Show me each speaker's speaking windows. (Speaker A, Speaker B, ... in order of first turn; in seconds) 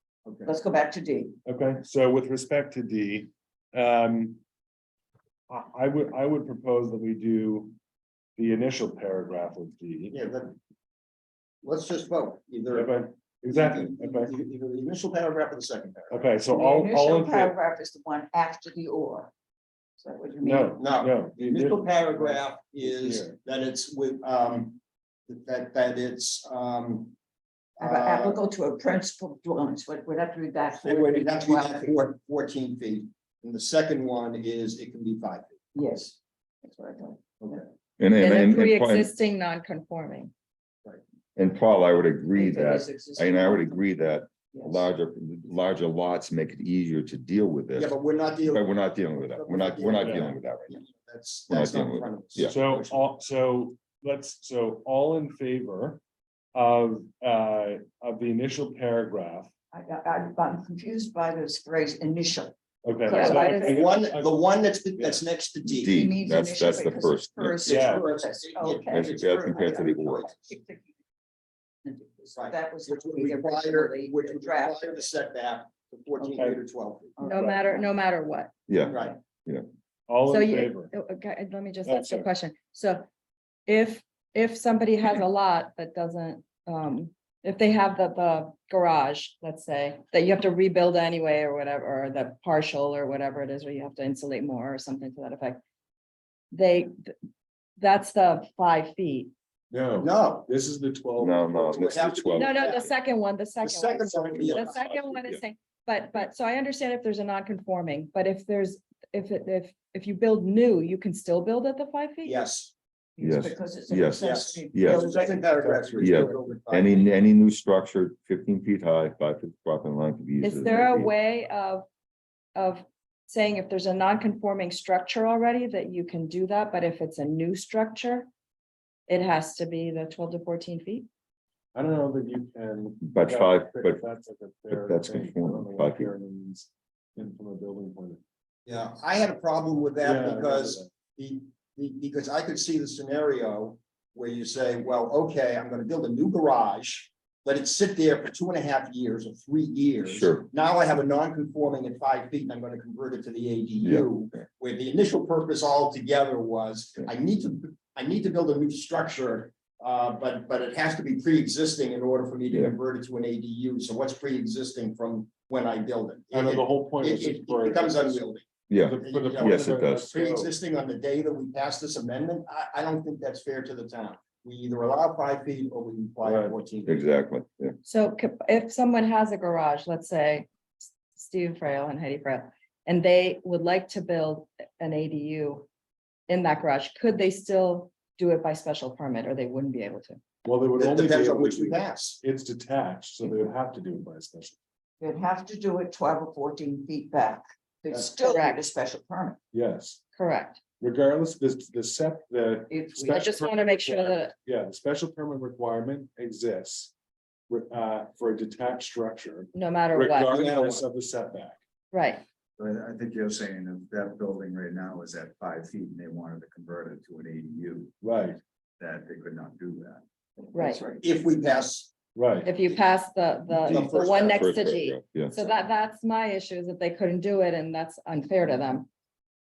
Speaker A: 0.2-0.5, 10.1-10.6, 11.6-16.3, 20.8-27.1, 27.8-28.4, 30.8-35.5, 47.7-53.1, 63.2-66.0, 67.7-70.4, 72.3-77.2, 78.9-79.2, 100.0-100.5, 101.8-102.9, 103.6-105.1, 112.2-112.7, 114.2-117.1, 138.7-176.9, 190.8-192.2, 197.9-198.2, 210.2-210.8, 221.0-221.9, 223.5-224.5
Speaker B: 0.4-1.4, 16.5-19.3, 20.0-20.8, 27.8-32.0, 35.8-37.6, 42.3-43.9, 44.5-44.9, 59.7-63.8, 65.9-70.9, 71.8-75.1, 76.2-76.5, 77.2-77.9, 113.2-115.7, 195.0-199.4, 202.7-203.3
Speaker C: 1.4-4.4, 5.5-7.8, 8.4-10.1, 12.7-14.3, 16.1-17.6, 20.4-23.4, 52.5-56.0, 56.5-59.5, 62.8-65.2, 67.7-68.1, 77.3-77.6, 80.1-80.9, 81.8-82.3, 99.7-102.4, 104.0-104.7, 115.7-116.2, 131.7-138.2, 140.0-140.9, 166.3-168.3, 168.8-170.5, 176.2-176.6, 190.4-194.6, 199.5-200.0, 200.8-206.9, 207.5-211.6, 218.0-218.4, 222.2-222.5
Speaker D: 38.0-39.1, 41.4-50.8, 51.5-52.6, 65.6-67.6, 68.9-70.3, 78.7-79.7, 101.2-102.9, 105.1-105.4, 113.2-115.2, 116.0-121.0, 133.0-134.1, 134.7-136.1, 150.0-150.5, 153.8-154.2, 168.7-170.1, 176.9-177.8, 223.7-225.4
Speaker E: 38.2-40.3, 63.1-63.8, 77.2-78.5, 80.3-83.1, 83.7-95.6, 96.5-97.1, 97.8-99.3, 102.3-112.5, 120.4-121.9, 122.5-128.3, 129.1-131.1, 177.8-185.7, 186.3-190.2, 198.2-198.7, 200.2-200.6, 203.2-204.4, 209.5-210.4, 211.9-212.2, 220.5-220.8, 222.4-228.9
Speaker F: 212.6-217.9, 218.8-221.0